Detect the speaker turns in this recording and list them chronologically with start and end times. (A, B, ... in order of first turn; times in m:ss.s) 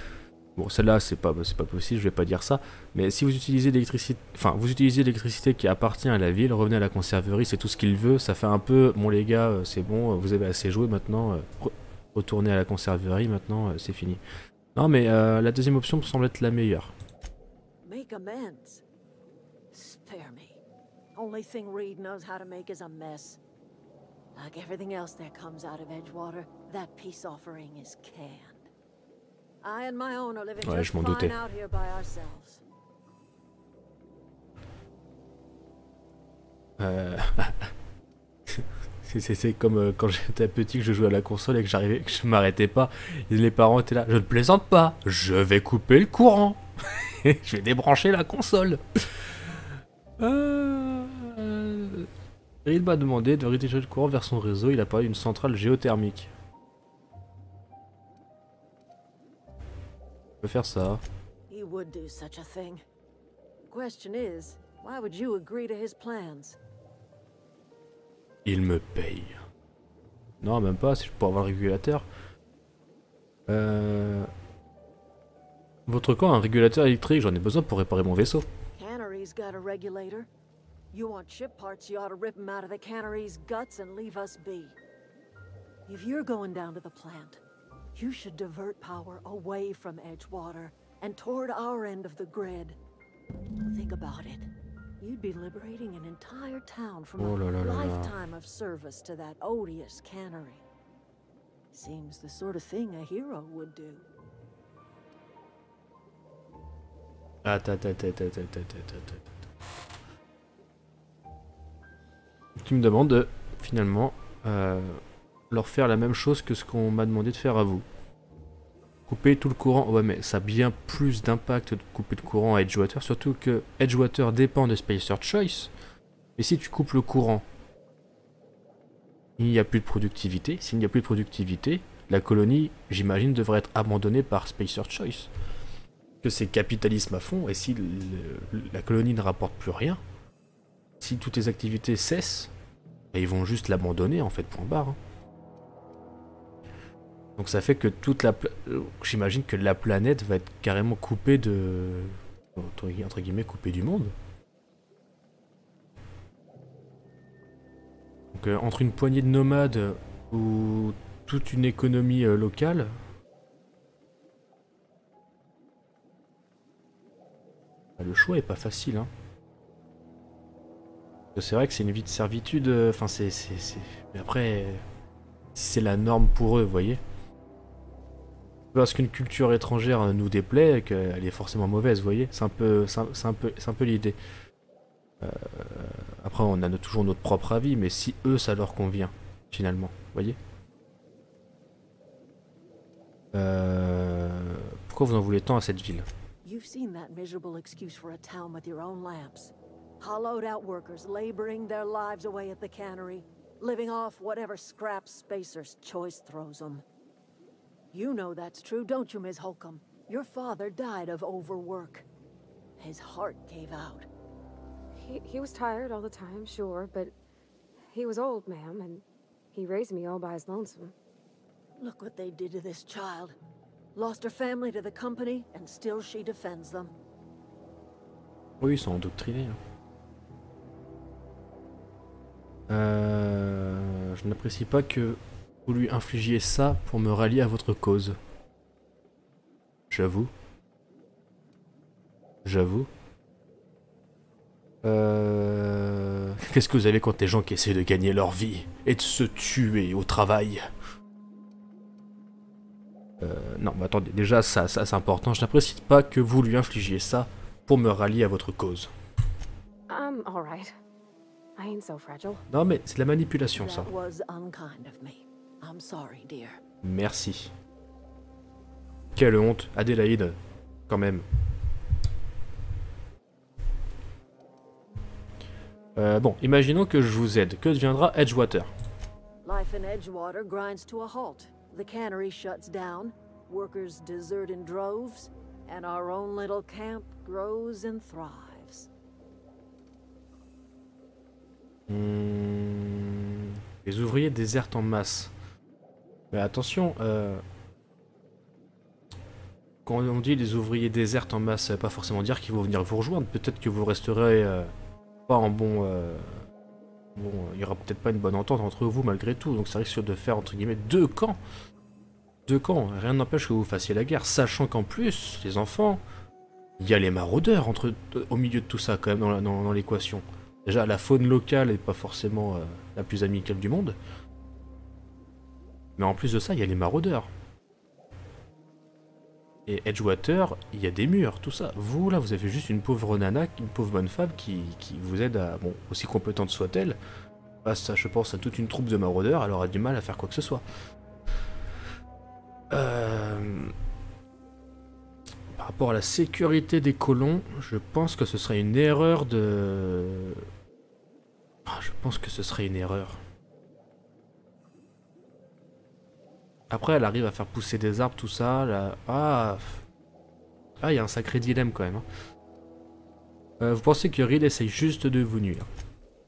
0:00.6-0:14.2 A
0:14.7-0:16.9 A
0:17.8-0:18.8 B
0:19.7-0:20.6 B
0:21.2-0:23.4 B
0:24.3-0:28.7 B
0:29.6-0:32.6 B
0:30.6-0:31.4 A
0:36.8-0:37.7 A
0:38.5-0:49.4 A
0:50.2-0:52.1 A
0:52.6-0:56.3 A
1:00.4-1:01.0 A
1:01.5-1:02.8 B
1:03.7-1:06.6 B
1:08.4-1:09.4 A
1:10.4-1:12.0 A
1:13.5-1:14.3 A
1:15.9-1:18.5 A
1:18.7-1:20.3 B
1:20.9-1:24.8 B
1:25.9-1:27.4 B
1:27.9-1:32.8 B
1:33.6-1:34.5 B
1:35.0-1:40.6 B
1:37.2-1:38.1 A
1:41.7-1:44.0 B
1:47.4-1:49.3 A
1:52.6-1:57.8 A
1:59.1-2:05.7 A
2:06.4-2:07.4 A
2:09.4-2:15.3 A
2:16.2-2:20.0 A
2:21.0-2:22.5 A
2:23.1-2:25.0 A
2:27.4-2:34.1 A
2:38.3-2:42.9 A
2:48.0-2:49.1 A
2:51.3-2:54.8 A
2:55.6-2:57.0 A
2:58.7-3:04.2 A
3:05.2-3:10.4 A
3:13.3-3:16.1 A
3:16.4-3:26.8 B
3:27.9-3:32.0 B
3:32.8-3:34.1 B
3:35.0-3:37.1 C
3:37.9-3:40.9 C
3:41.8-3:43.3 B
3:43.9-3:46.9 B
3:48.6-3:49.6 A
3:52.7-3:58.2 A
3:59.9-4:00.3 A
4:02.4-4:02.9 A
4:04.8-4:10.6 A
4:13.2-4:18.9 A
4:19.9-4:20.7 C
4:21.6-4:22.4 C
4:22.5-4:23.9 A
4:23.6-4:26.6 B
4:26.8-4:27.5 A
4:29.2-4:30.4 A
4:30.9-4:31.2 A
4:36.0-4:38.7 A
4:39.4-4:48.9 B
4:51.9-4:55.3 A
4:56.3-4:57.4 A
4:59.9-5:04.7 A
5:05.3-5:06.4 A
5:07.2-5:11.4 A
5:12.5-5:16.0 A
5:16.8-5:24.0 A
5:26.0-5:27.3 A
5:29.7-5:37.0 A
5:37.6-5:40.6 A
5:42.7-5:43.7 A
5:45.5-5:50.4 A
5:51.7-5:53.2 A
5:56.7-5:59.8 A
6:00.8-6:02.0 A
6:03.6-6:05.7 A